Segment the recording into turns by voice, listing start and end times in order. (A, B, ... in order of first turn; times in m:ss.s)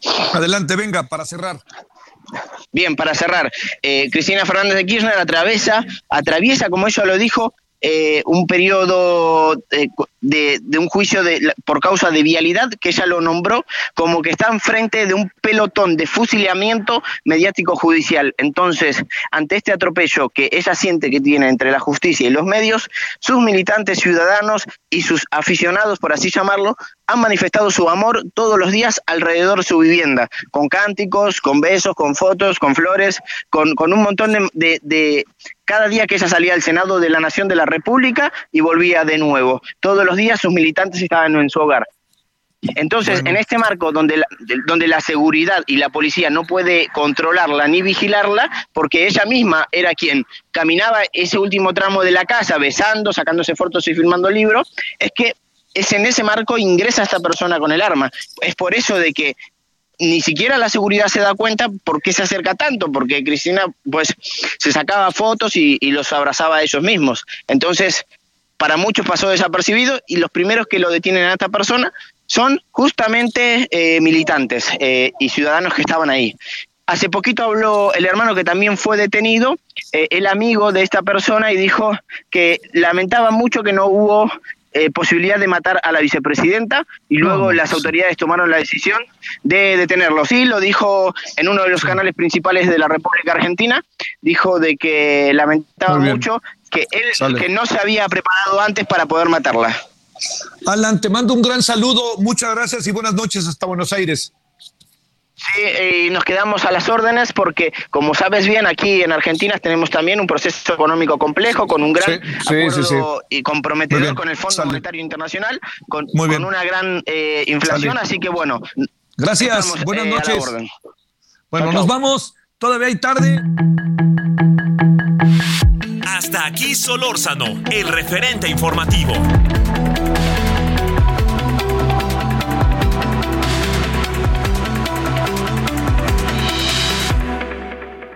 0:00.3-0:01.6 A
0:02.7-0:41.8 B
0:42.8-0:59.4 B
0:43.0-0:43.4 A
1:00.0-1:08.0 B
1:08.6-1:16.4 B
1:16.9-1:39.8 B
1:27.2-1:27.9 A
1:35.9-1:36.3 A
1:37.2-1:37.4 A
1:40.6-1:44.3 A
1:45.4-1:58.6 B
1:52.0-1:53.1 A
1:53.9-1:54.8 A
1:56.1-1:56.5 A
1:57.6-1:58.0 A
1:59.2-2:00.5 A
1:59.4-2:00.7 B
2:01.5-2:03.4 A
2:01.6-2:01.9 B
2:06.0-2:09.2 C